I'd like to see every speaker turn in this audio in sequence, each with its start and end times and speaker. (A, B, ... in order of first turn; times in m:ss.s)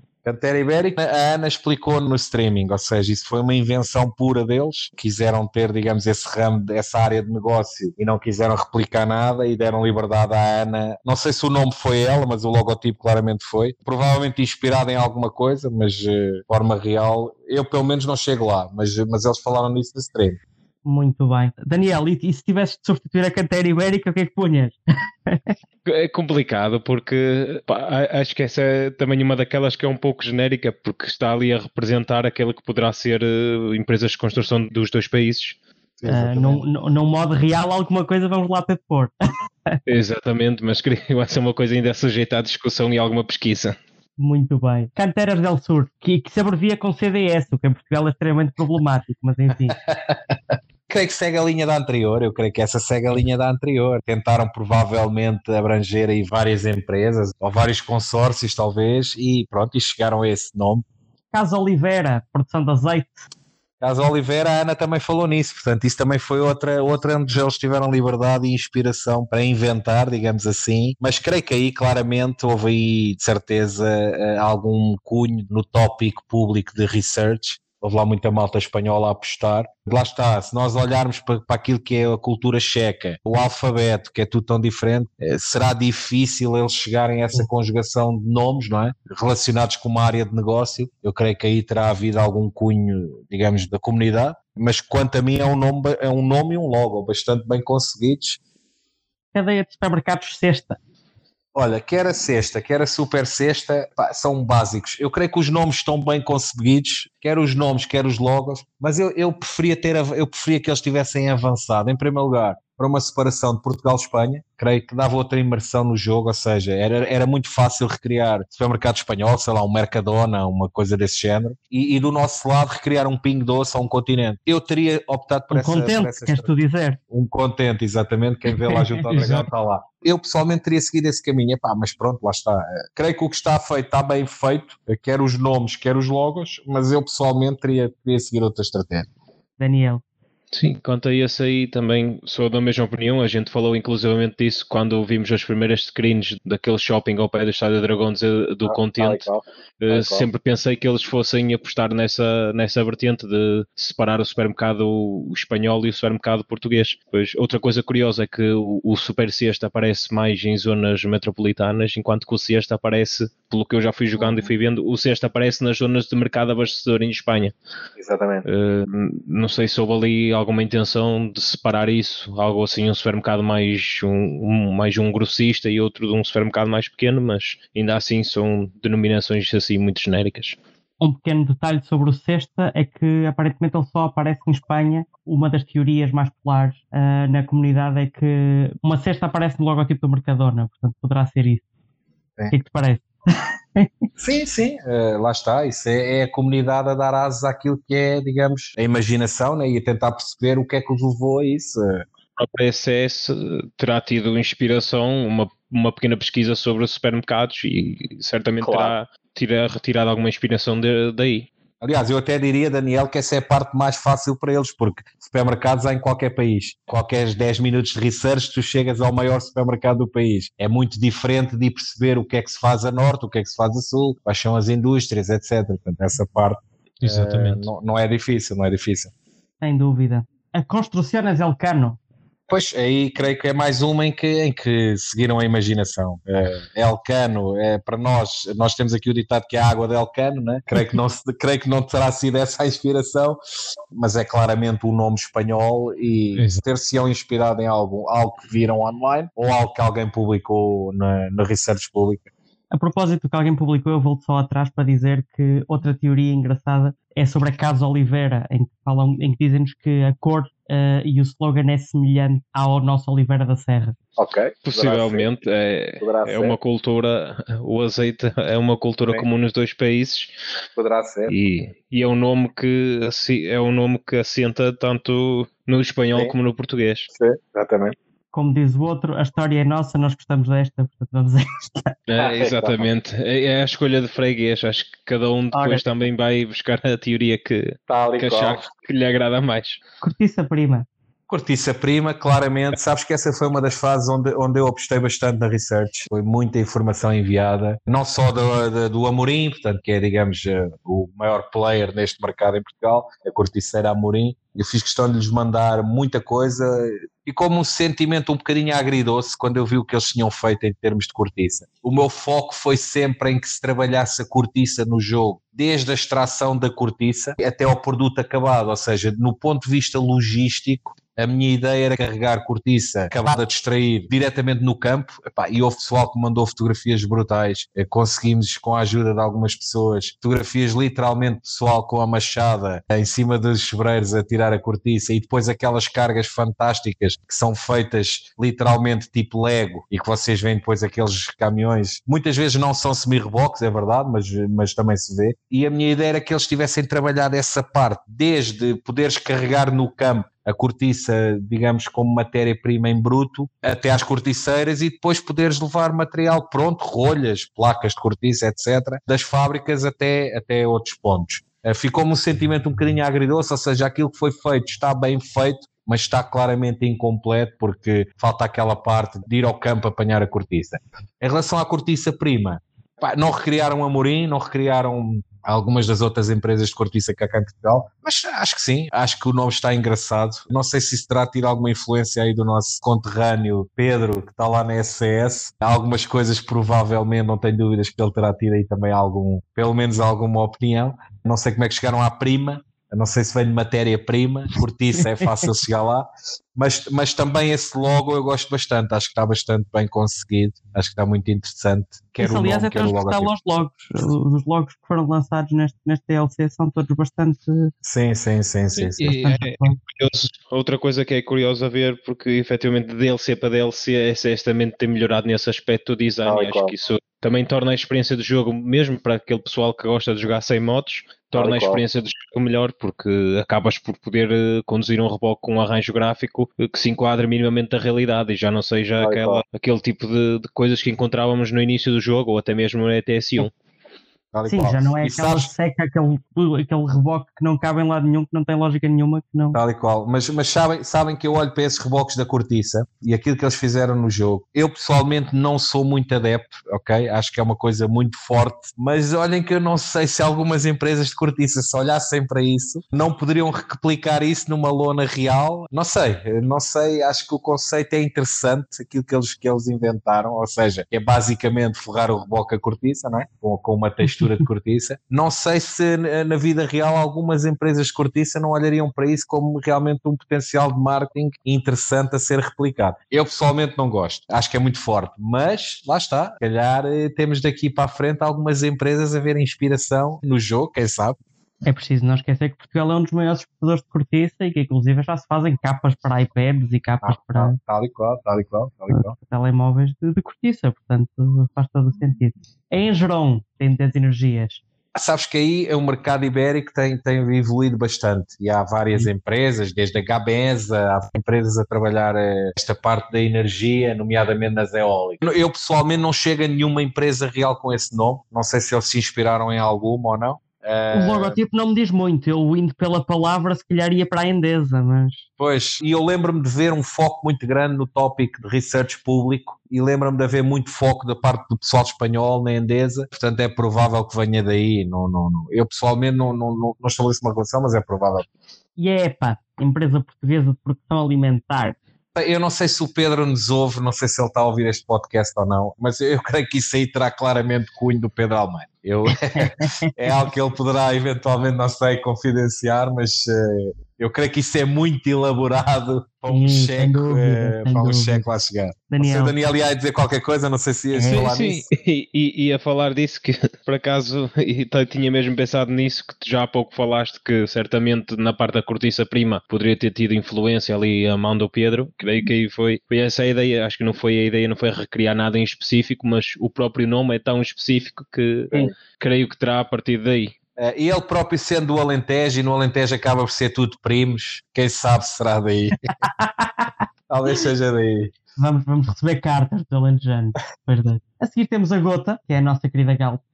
0:00.2-0:20.4 A
0:20.8-0:24.7 B
0:25.2-0:25.5 B
0:25.8-0:35.6 C
0:36.0-0:36.6 A
0:36.1-0:39.1 B
0:39.8-0:43.8 C
0:44.2-0:49.8 B
0:49.8-0:50.3 A
0:50.9-1:00.8 A
1:01.3-1:03.2 B
1:03.8-1:38.4 A
1:39.3-1:40.8 B
1:41.5-2:06.5 A
2:05.5-2:07.0 B
2:07.1-2:19.1 A
2:08.7-2:09.0 B
2:09.1-2:09.5 C
2:19.6-2:20.0 B
2:20.5-2:29.3 C
2:28.6-2:30.3 A
2:29.8-2:47.5 C
2:44.1-2:44.5 A
2:48.0-2:48.4 A
2:48.4-3:00.6 C
3:01.0-3:11.6 B
3:12.5-3:13.9 B
3:14.2-3:22.0 A
3:22.4-3:31.5 C
3:28.6-3:28.9 A
3:31.8-3:49.1 A
3:47.0-3:47.7 C
3:49.6-3:52.0 B
3:52.5-4:03.4 A
4:03.9-4:12.3 A
4:06.3-4:06.6 C
4:12.7-4:24.0 B
4:24.2-4:25.3 A
4:24.6-4:30.3 C
4:26.0-4:26.6 A
4:30.8-4:31.3 A
4:31.3-4:37.1 C
4:37.1-4:38.0 A
4:38.3-4:42.0 B
4:42.1-4:49.8 C
4:42.2-4:42.9 A
4:45.5-4:45.8 B
4:47.9-4:48.6 A
4:50.0-4:50.9 B
4:51.3-6:43.3 A
6:35.2-6:35.5 B
6:42.2-6:47.7 B
6:47.8-6:49.1 A
6:48.8-7:13.5 C
6:49.0-6:49.8 B
6:56.2-6:56.7 A
7:01.3-7:01.8 A
7:09.0-7:09.4 A
7:14.3-7:15.5 A
7:14.4-7:19.6 B
7:19.5-8:01.2 A
7:44.0-7:44.4 B
8:01.6-8:07.6 B
8:07.0-8:09.1 A
8:08.9-8:14.6 B
8:14.9-8:31.4 A
8:30.9-8:35.2 B
8:35.4-8:48.3 A
8:48.8-8:51.8 B
8:52.1-9:11.7 A
8:59.3-9:00.1 B
9:06.3-9:08.3 B
9:08.9-9:09.3 B
9:10.9-9:30.3 C
9:30.6-9:35.9 A
9:36.0-9:36.6 B
9:37.1-9:38.1 A
9:38.4-9:43.2 B